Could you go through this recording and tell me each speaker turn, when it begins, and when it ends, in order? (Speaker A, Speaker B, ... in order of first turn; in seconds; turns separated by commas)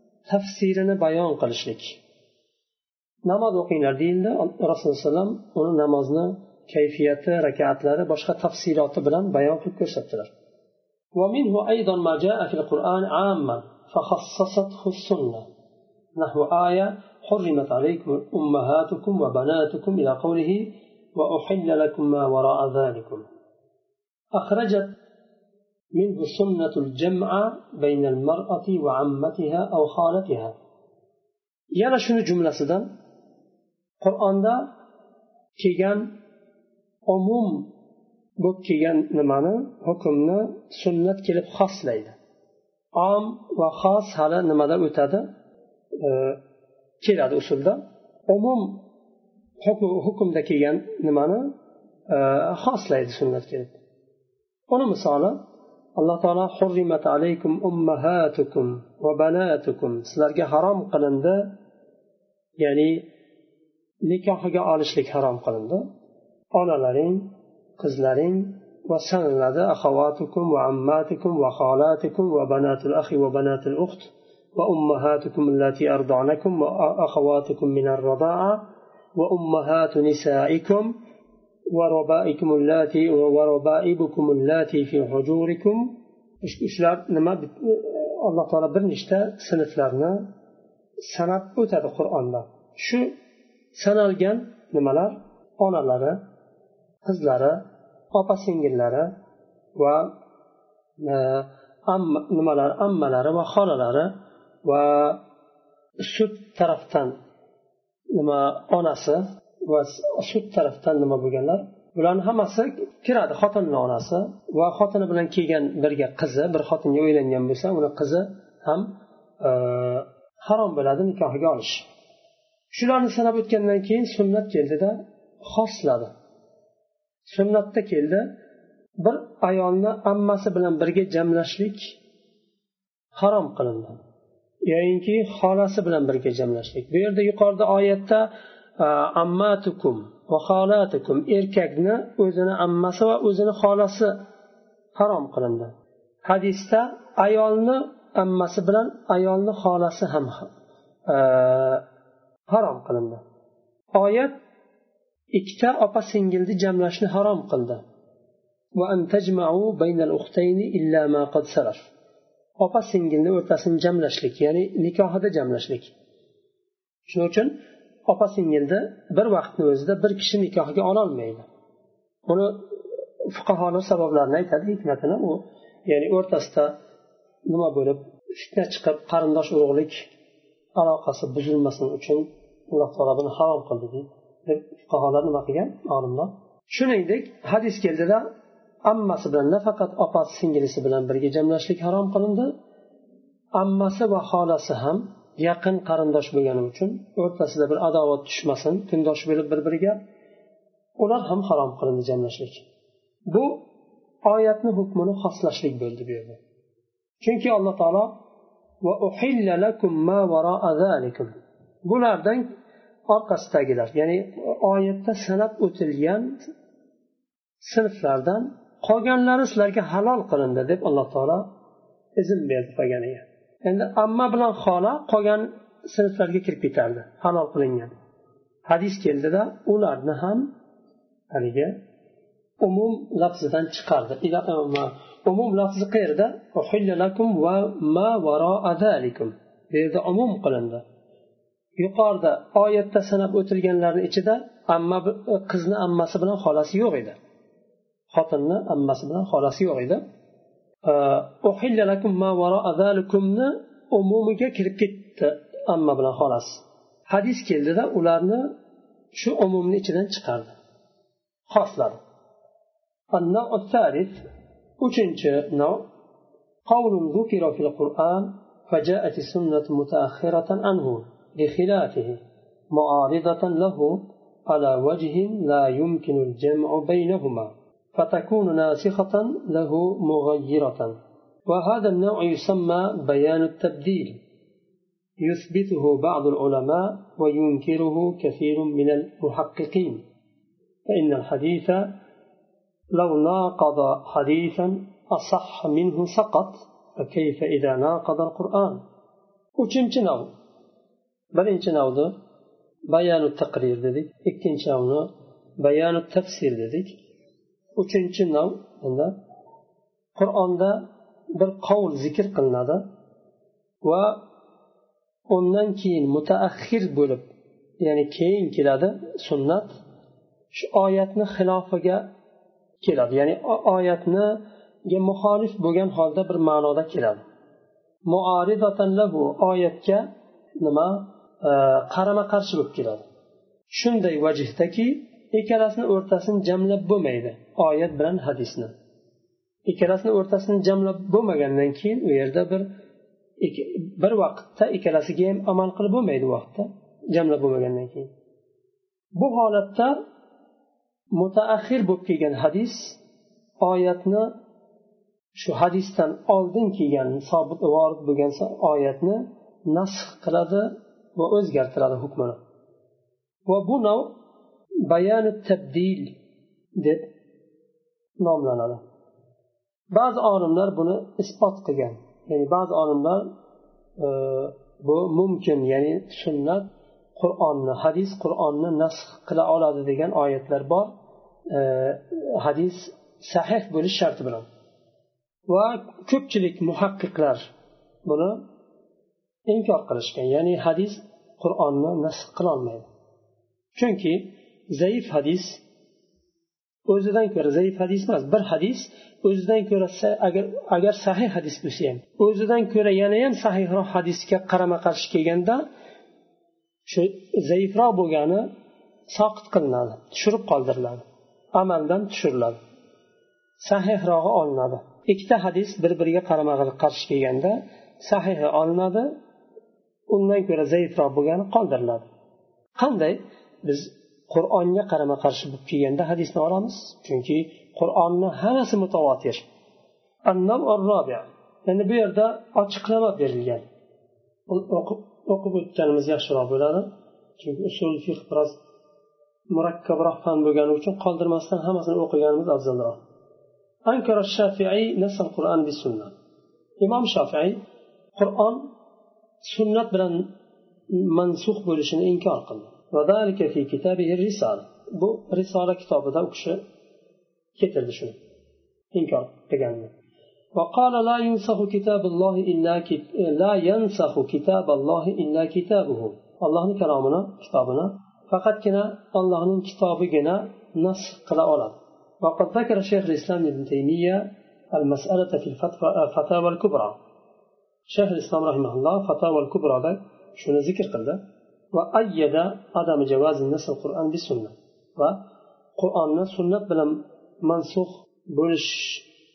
Speaker A: 0.3-2.0, Speaker A: 3.2-10.3, Speaker A: 11.2-15.5, Speaker A: 16.1-23.2, Speaker A: 24.3-24.9, Speaker A: 25.9-30.6, Speaker A: 31.8-32.9, Speaker A: 34.0-34.7, Speaker A: 35.6-36.1, Speaker A: 37.1-37.7, Speaker A: 38.4-42.1, Speaker A: 42.9-45.3, Speaker A: 46.0-46.4, Speaker A: 47.0-48.8, Speaker A: 49.6-51.5, Speaker A: 52.1-53.8, Speaker A: 54.7-55.4, Speaker A: 56.0-61.5, Speaker A: 62.6-63.1, Speaker A: 64.0-65.8, Speaker A: 66.5-78.6, Speaker A: 79.2-81.0, Speaker A: 81.7-90.3, Speaker A: 91.0-93.1, Speaker A: 93.7-96.2, Speaker A: 97.0-97.6, Speaker A: 98.1-99.1, Speaker A: 99.8-100.1, Speaker A: 101.0-104.1, Speaker A: 104.6-105.2, Speaker A: 106.0-107.2, Speaker A: 108.1-121.9, Speaker A: 122.7-126.1, Speaker A: 127.3-128.3, Speaker A: 129.0-132.0, Speaker A: 133.2-133.9, Speaker A: 134.7-138.3, Speaker A: 138.8-144.2, Speaker A: 144.9-150.5, Speaker A: 151.1-151.8, Speaker A: 152.5-153.2, Speaker A: 153.9-154.3, Speaker A: 155.3-157.8, Speaker A: 158.8-161.9, Speaker A: 162.6-165.9, Speaker A: 167.1-167.6, Speaker A: 168.1-171.4, Speaker A: 172.3-172.6, Speaker A: 173.2-176.8, Speaker A: 177.5-180.1, Speaker A: 180.8-188.3, Speaker A: 188.8-192.5, Speaker A: 193.6-200.0, Speaker A: 201.0-202.6, Speaker A: 203.3-203.6, Speaker A: 204.2-206.4, Speaker A: 207.2-208.1, Speaker A: 208.8-211.3, Speaker A: 211.8-212.5, Speaker A: 213.1-216.4, Speaker A: 217.6-221.5, Speaker A: 222.2-227.9, Speaker A: 228.7-230.5, Speaker A: 231.3-231.8, Speaker A: 232.6-240.8, Speaker A: 241.8-247.2, Speaker A: 248.1-250.0, Speaker A: 250.8-258.5, Speaker A: 259.1-260.6, Speaker A: 261.5-262.0, Speaker A: 263.1-264.2, Speaker A: 264.8-265.9, Speaker A: 266.7-280.9, Speaker A: 281.5-284.2, Speaker A: 285.2-290.0, Speaker A: 290.9-291.9, Speaker A: 292.9-298.8, Speaker A: 299.6-300.3, Speaker A: 301.3-302.1, Speaker A: 302.9-305.1, Speaker A: 305.6-307.0, Speaker A: 307.8-309.1, Speaker A: 310.1-312.8, Speaker A: 313.8-314.2, Speaker A: 315.3-317.2, Speaker A: 317.8-319.7, Speaker A: 320.5-322.1, Speaker A: 322.8-327.2, Speaker A: 328.1-330.1, Speaker A: 330.6-333.1, Speaker A: 333.7-338.7, Speaker A: 339.6-342.7, Speaker A: 343.4-348.1, Speaker A: 349.1-350.0, Speaker A: 351.1-353.0, Speaker A: 353.6-354.3, Speaker A: 355.3-362.4, Speaker A: 363.4-364.1, Speaker A: 364.9-366.1, Speaker A: 366.8-367.1, Speaker A: 368.2-368.8, Speaker A: 369.9-373.3, Speaker A: 374.0-380.9, Speaker A: 381.5-384.5, Speaker A: 385.5-387.5, Speaker A: 388.0-388.4, Speaker A: 389.5-392.9, Speaker A: 393.7-395.6, Speaker A: 396.9-405.6, Speaker A: 406.9-408.5, Speaker A: 409.1-411.0, Speaker A: 411.5-412.6, Speaker A: 413.6-419.1, Speaker A: 420.1-422.1, Speaker A: 422.8-429.4, Speaker A: 430.3-433.6, Speaker A: 434.5-438.6, Speaker A: 439.5-443.0, Speaker A: 443.9-446.1, Speaker A: 446.8-447.6, Speaker A: 448.1-448.7, Speaker A: 449.4-450.3, Speaker A: 450.9-456.6, Speaker A: 457.6-458.2, Speaker A: 458.9-459.9, Speaker A: 460.5-477.0, Speaker A: 477.9-481.2, Speaker A: 481.7-485.2, Speaker A: 485.8-489.1